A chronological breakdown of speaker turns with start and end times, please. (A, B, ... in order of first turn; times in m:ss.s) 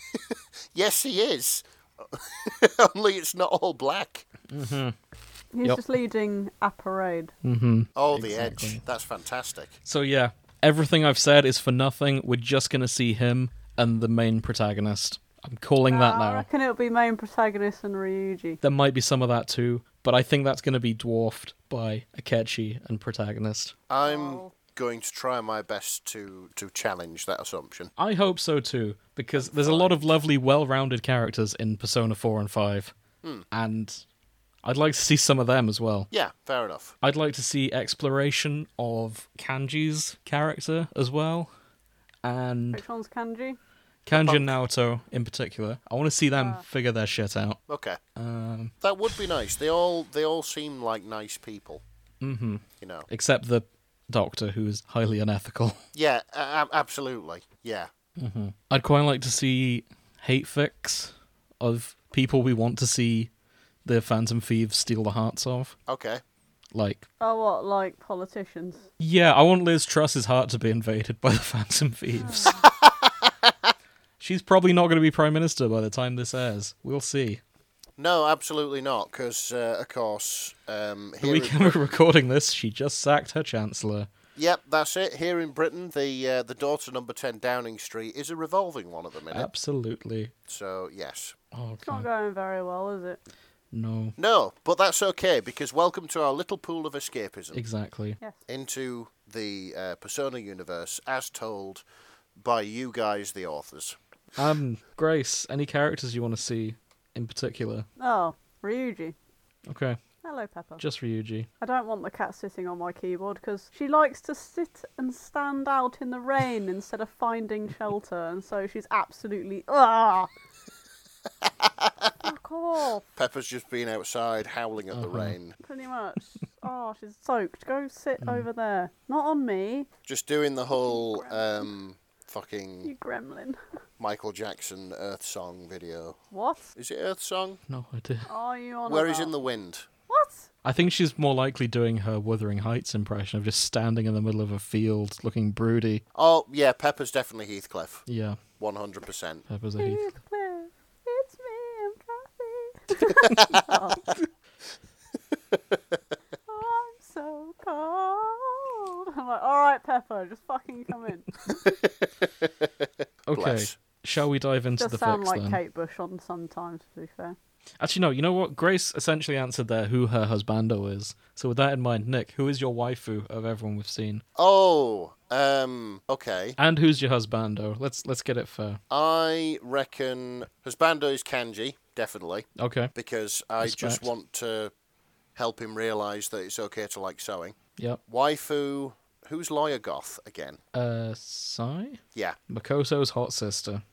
0:00.1-0:04.3 A
0:04.5-0:05.0 B
0:05.5-0:07.3 C
0:07.4-0:08.8 B
0:08.0-0:09.8 A
0:09.9-0:16.5 B
0:15.9-0:18.6 C
0:18.6-0:23.8 B
0:23.9-0:27.9 A
0:24.0-0:24.5 C
0:28.0-0:32.9 B
0:29.4-0:30.2 A
0:33.5-0:34.0 B
0:34.6-0:36.1 B
0:36.1-0:37.0 A
0:37.0-0:41.5 B
0:42.2-0:42.8 B
0:42.7-0:43.6 C
0:44.1-0:47.6 B
0:44.1-0:44.5 A
0:46.4-0:46.6 C
0:47.7-0:48.0 A
0:48.2-0:48.7 B
0:48.8-0:51.8 A
0:52.2-0:55.8 B
0:52.8-0:53.1 A
0:55.9-0:57.9 A
0:58.2-1:03.3 B
1:03.8-1:05.8 B
1:05.9-1:06.2 A
1:06.7-1:07.1 B
1:07.2-1:08.9 C
1:09.0-1:12.6 B
1:12.2-1:12.6 C
1:12.7-1:13.7 A
1:14.2-1:17.4 B
1:18.0-1:22.0 A
1:21.2-1:24.1 B
1:24.4-1:29.5 A
1:29.3-1:30.3 B
1:30.5-1:31.4 A
1:31.5-1:32.1 B
1:31.8-1:33.2 C
1:33.7-1:34.2 B
1:34.2-1:37.6 A
1:37.5-1:38.2 B
1:38.5-1:41.8 A
1:42.4-1:44.0 A
1:44.4-1:47.9 B
1:48.0-1:49.2 C
1:49.7-1:50.0 B
1:50.2-1:50.8 C
1:50.8-1:51.5 B
1:51.6-2:00.3 C
2:01.4-2:02.1 A
2:02.2-2:03.0 C
2:03.2-2:05.6 A
2:04.9-2:05.4 B
2:05.6-2:09.9 C
2:08.2-2:08.5 B
2:10.1-2:12.9 A
2:10.7-2:11.7 C
2:12.8-2:13.6 C
2:14.0-2:16.2 A
2:16.3-2:16.7 C
2:16.7-2:17.6 A
2:17.7-2:18.3 B
2:18.3-2:19.3 C
2:18.9-2:19.9 A
2:20.1-2:20.5 C
2:20.6-2:26.0 B
2:26.2-2:28.0 A
2:28.1-2:28.4 B
2:28.6-2:29.4 A
2:29.5-2:30.0 B
2:29.8-2:34.1 C
2:33.2-2:33.7 A
2:35.3-2:35.8 A
2:36.5-2:41.7 C
2:41.6-2:43.7 A
2:43.3-2:45.6 B
2:44.8-2:47.4 C
2:47.8-2:54.2 B
2:54.4-2:56.6 A
2:56.6-2:58.8 B
2:58.9-3:04.7 A
3:02.6-3:02.9 B
3:03.6-3:04.1 B
3:05.4-3:07.6 A
3:08.1-3:10.6 A
3:10.7-3:13.8 B